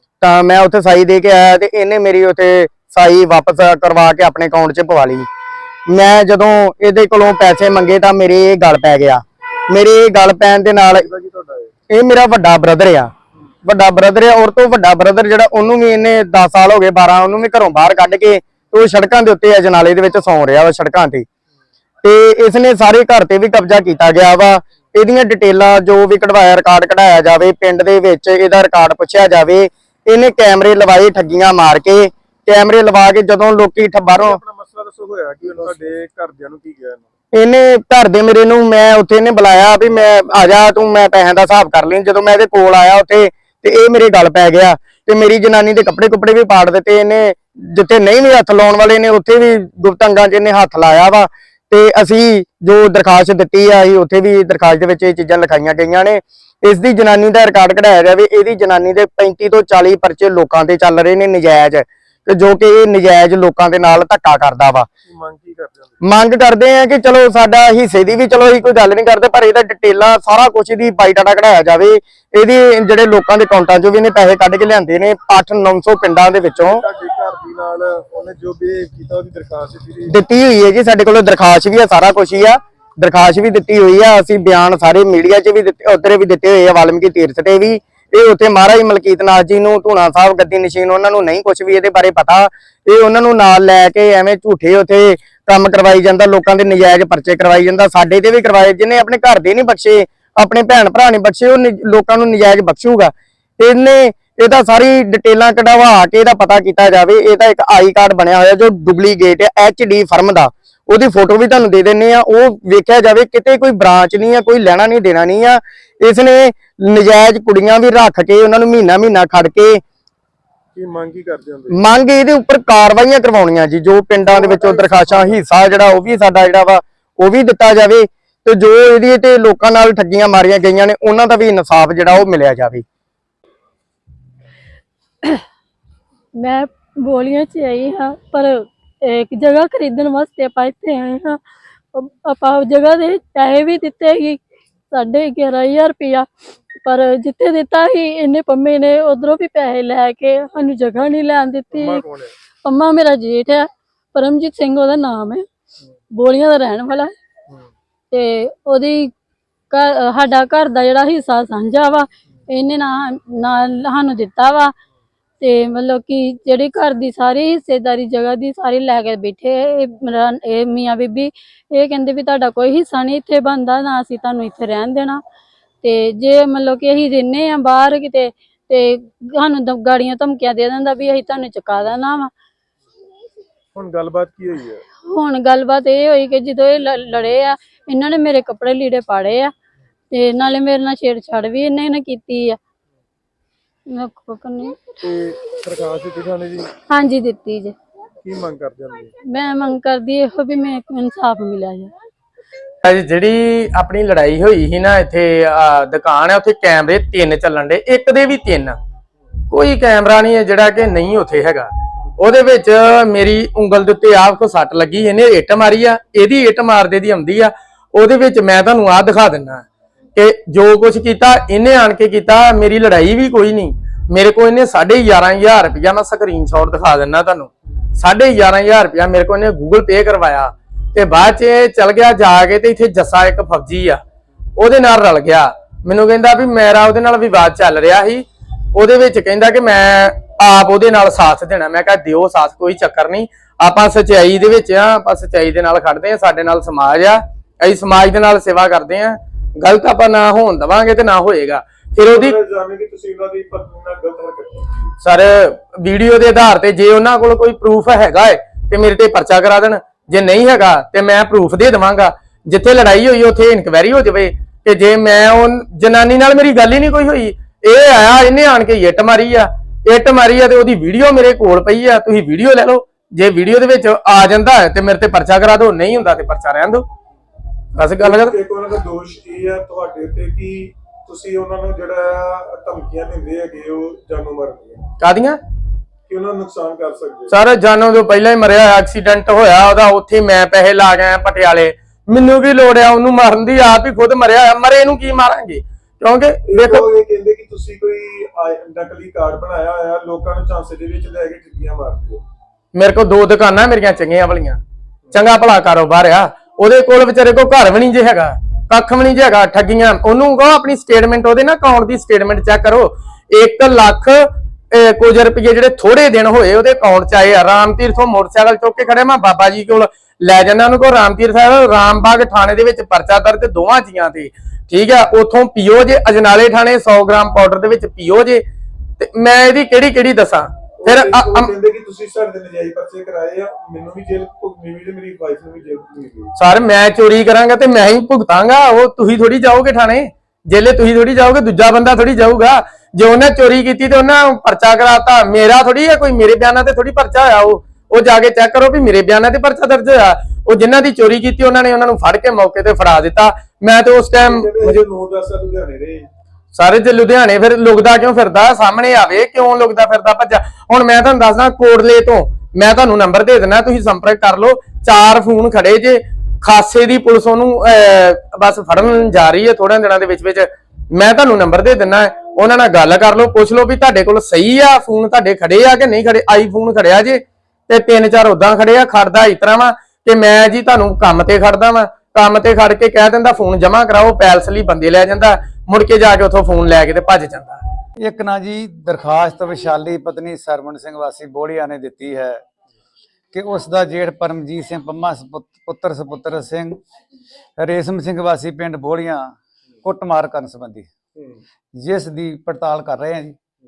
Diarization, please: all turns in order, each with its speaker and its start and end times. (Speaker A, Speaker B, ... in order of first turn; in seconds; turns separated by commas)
Speaker A: 0.2-5.2, Speaker A: 5.9-11.1, Speaker B: 10.9-11.7, Speaker A: 11.9-13.1, Speaker A: 13.6-21.2, Speaker A: 22.0-34.4, Speaker B: 34.2-37.1, Speaker A: 37.3-64.9, Speaker B: 65.0-66.0, Speaker A: 66.0-76.8, Speaker B: 76.5-80.2, Speaker A: 80.1-119.8, Speaker B: 120.7-121.8, Speaker A: 121.7-132.8, Speaker B: 124.2-125.3, Speaker C: 136.4-141.4, Speaker C: 141.9-144.4, Speaker C: 144.9-146.3, Speaker C: 146.8-152.0, Speaker B: 151.7-152.3, Speaker C: 152.6-155.4, Speaker C: 156.1-157.1, Speaker C: 158.1-159.1, Speaker C: 159.7-164.7, Speaker C: 165.4-175.2, Speaker C: 175.8-182.3, Speaker B: 183.7-184.8, Speaker C: 185.1-189.5, Speaker C: 190.1-192.6, Speaker C: 193.9-195.0, Speaker B: 195.0-196.7, Speaker C: 196.9-197.7, Speaker B: 198.2-199.1, Speaker C: 199.3-201.9, Speaker D: 202.8-208.8, Speaker D: 209.5-219.6, Speaker D: 220.2-234.0, Speaker D: 234.6-252.3, Speaker B: 252.1-254.9, Speaker D: 255.0-276.8, Speaker D: 277.7-278.3, Speaker B: 278.0-284.9, Speaker D: 285.0-285.4, Speaker B: 286.1-287.3, Speaker D: 287.3-296.8, Speaker B: 296.5-302.2, Speaker D: 302.7-304.6, Speaker D: 305.1-328.4, Speaker D: 329.0-331.5, Speaker B: 330.8-336.3, Speaker D: 336.4-354.8, Speaker B: 354.2-356.1, Speaker D: 356.5-387.6, Speaker E: 388.0-392.4, Speaker E: 393.3-396.8, Speaker E: 397.6-400.9, Speaker E: 401.8-403.4